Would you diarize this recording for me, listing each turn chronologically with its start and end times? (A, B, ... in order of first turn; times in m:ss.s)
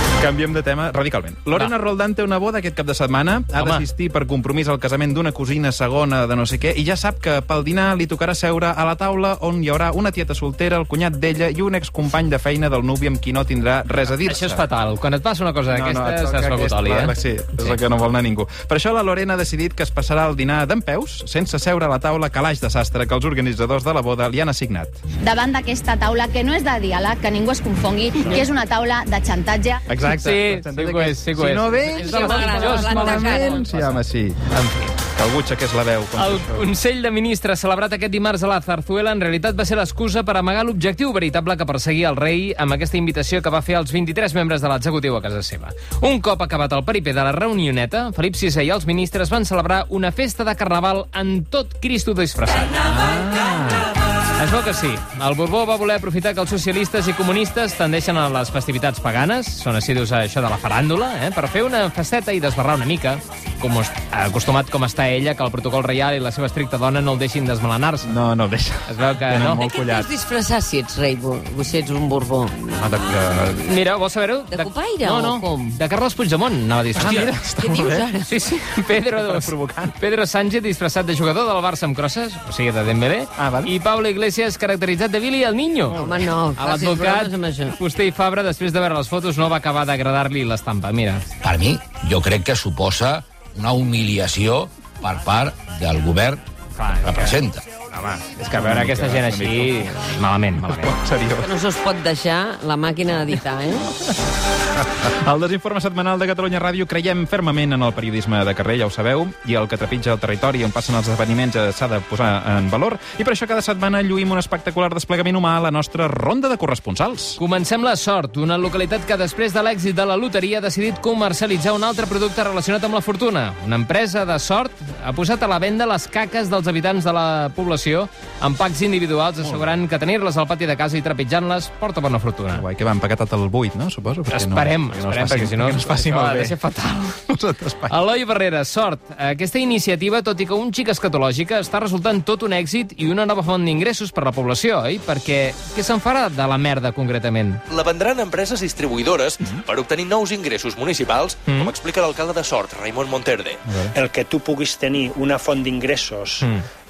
0:00.2-0:14.6 A
0:03.6-0:03.8 B
0:14.2-0:17.8 B
0:15.7-0:25.0 A
0:25.2-0:29.8 C
0:28.2-0:28.4 A
0:29.9-0:34.4 A
0:30.1-0:35.0 B
0:31.9-0:33.6 D
0:35.1-0:36.7 A
0:36.2-0:52.9 B
0:52.9-0:53.8 A
0:54.4-1:08.1 B
1:08.1-1:10.1 A
1:08.9-1:09.6 B
1:09.6-1:12.6 D
1:12.7-1:13.6 A
1:13.6-1:17.3 B
1:14.5-1:15.8 D
1:16.9-1:18.1 A
1:17.4-1:18.6 D
1:18.3-1:31.2 B
1:19.2-1:20.0 A
1:23.4-1:23.7 A
1:25.9-1:27.8 D
1:31.4-1:36.4 E
1:36.8-1:37.4 B
1:37.0-1:37.6 E
1:37.9-1:40.9 B
1:38.4-1:39.9 A
1:40.6-1:41.5 A
1:41.4-1:44.0 D
1:45.0-1:57.4 A
1:57.4-2:12.6 B
2:09.4-2:09.8 A
2:12.5-2:16.6 A
2:14.3-2:17.2 B
2:17.3-2:18.0 A
2:17.9-2:27.6 B
2:27.7-2:33.6 F
2:31.5-2:31.7 B
2:33.6-2:33.9 A
2:33.9-2:36.5 G